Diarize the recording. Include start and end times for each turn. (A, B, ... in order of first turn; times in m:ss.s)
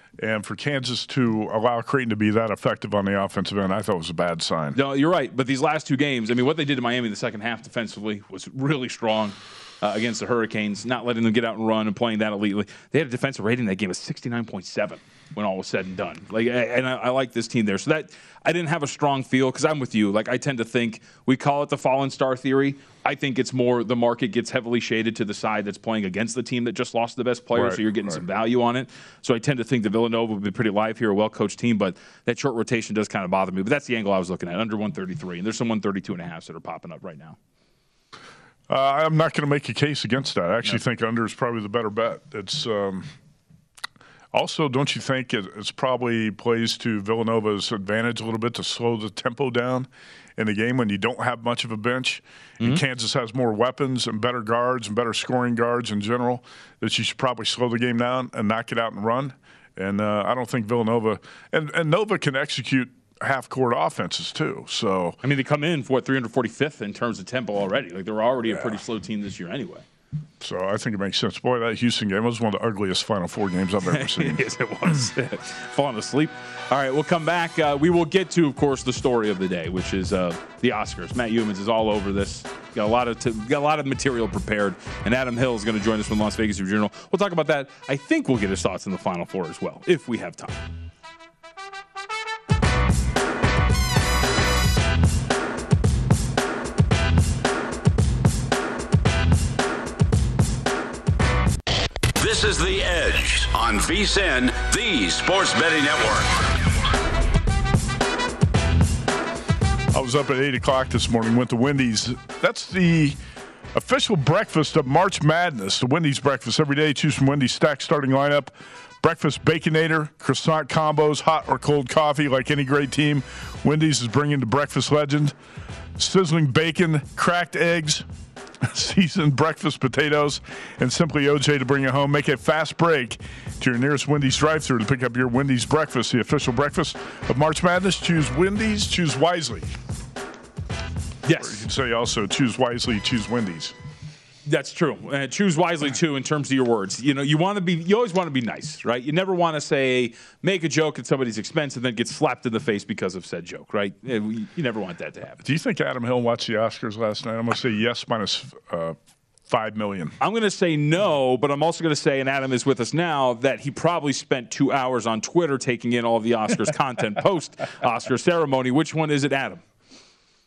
0:00.2-0:04.8 A
0:04.7-0:37.4 B
0:27.5-0:28.2 A
0:38.7-0:43.1 A
0:44.3-1:05.2 A
1:05.2-1:09.8 B
1:10.4-1:14.4 A
1:13.9-1:30.6 B
1:42.2-1:46.7 C
1:49.9-1:53.2 A
1:53.7-2:05.3 A
2:06.0-2:08.0 A
2:08.6-2:19.7 A
2:21.2-2:21.6 B
2:21.3-2:23.7 A
2:24.4-2:35.4 B
2:35.4-2:39.0 A
2:39.5-2:40.2 A
2:40.2-2:49.6 B